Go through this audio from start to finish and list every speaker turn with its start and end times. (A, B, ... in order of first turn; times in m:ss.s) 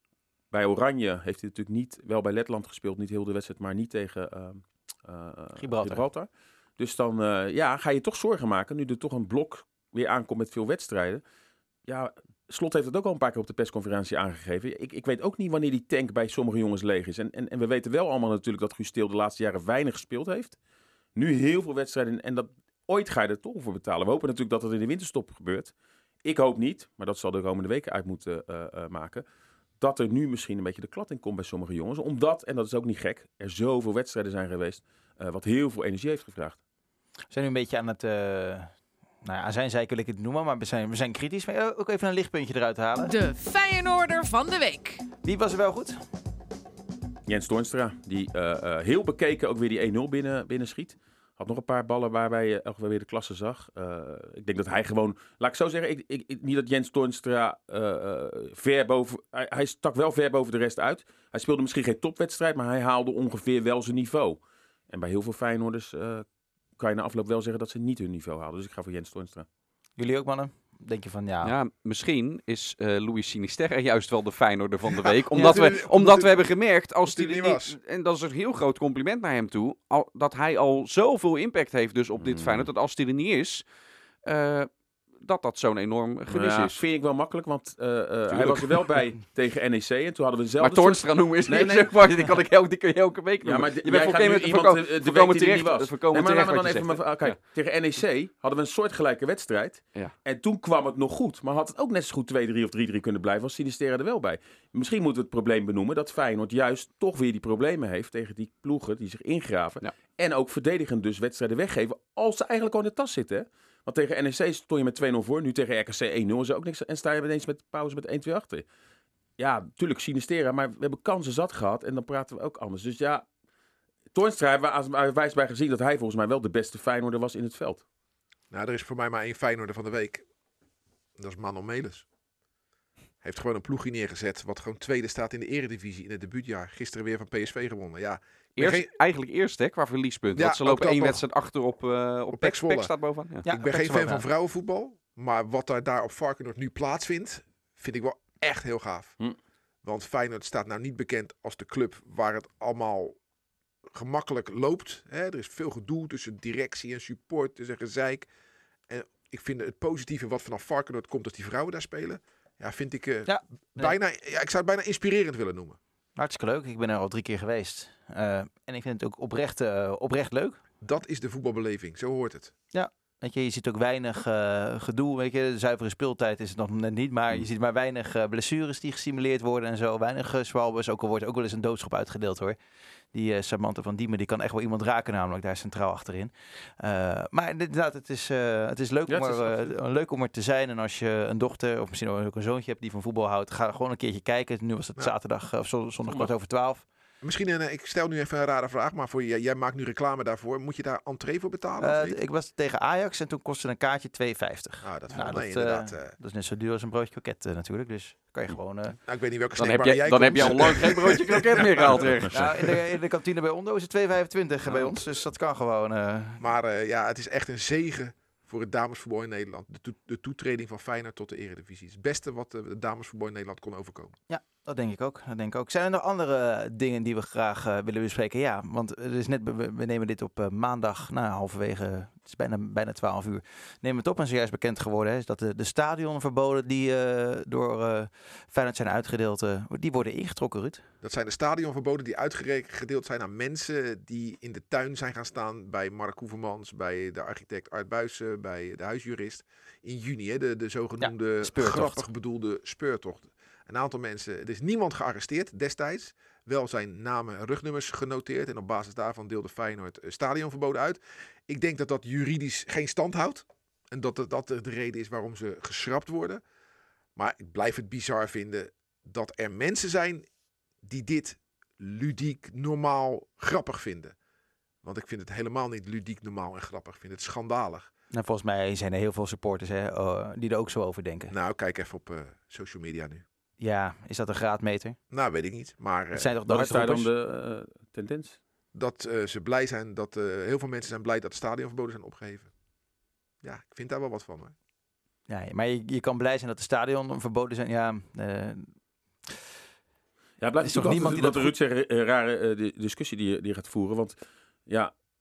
0:00.5-0:11.2 A
0:05.6-0:06.0 B
0:11.9-0:20.6 A
0:21.2-0:29.2 A
0:29.8-0:36.6 A
0:37.3-0:43.2 B
0:43.0-0:45.1 C
0:45.2-0:46.0 B
0:47.3-1:06.3 A
1:06.8-1:09.5 A
1:10.0-1:11.6 B
1:11.4-1:23.6 D
1:14.9-1:16.4 E
1:17.0-1:17.8 E
1:22.2-1:22.7 A
1:24.2-1:24.7 D
1:25.2-1:26.8 D
1:26.3-1:32.2 A
1:28.3-1:28.6 D
1:30.6-1:37.4 D
1:33.4-1:58.6 A
1:59.4-2:03.3 A
2:04.1-2:07.8 A
2:08.5-2:10.2 E
2:11.2-2:12.0 E
2:13.2-2:18.9 E
2:18.6-2:23.5 D
2:20.4-2:21.2 E
2:22.3-2:22.9 E
2:23.4-2:24.3 B
2:23.5-2:29.2 E
2:29.8-2:33.2 E
2:33.9-2:38.3 E
2:38.9-2:45.8 E
2:43.3-2:44.0 B
2:46.2-2:50.6 B
2:50.8-2:52.5 E
2:52.7-3:02.6 B
3:03.1-3:16.8 B
3:09.1-3:09.7 A
3:17.2-3:22.2 E
3:21.8-3:29.0 B
3:24.8-3:26.2 E
3:29.1-3:32.1 E
3:29.6-3:32.7 D
3:32.3-3:36.4 B
3:36.4-3:44.2 E
3:44.3-4:00.8 B
4:01.0-4:26.4 E
4:11.0-4:12.1 B
4:27.2-4:30.3 E
4:30.8-4:34.2 E
4:34.8-4:37.9 E
4:38.1-4:41.3 B
4:41.3-4:43.2 E
4:43.6-4:45.0 B
4:45.1-4:46.3 E
4:46.1-4:47.1 B
4:46.5-4:48.4 A
4:48.7-4:52.5 E
4:53.4-4:54.5 E
4:55.3-4:58.8 B
5:00.4-5:04.9 A
5:00.6-5:01.6 B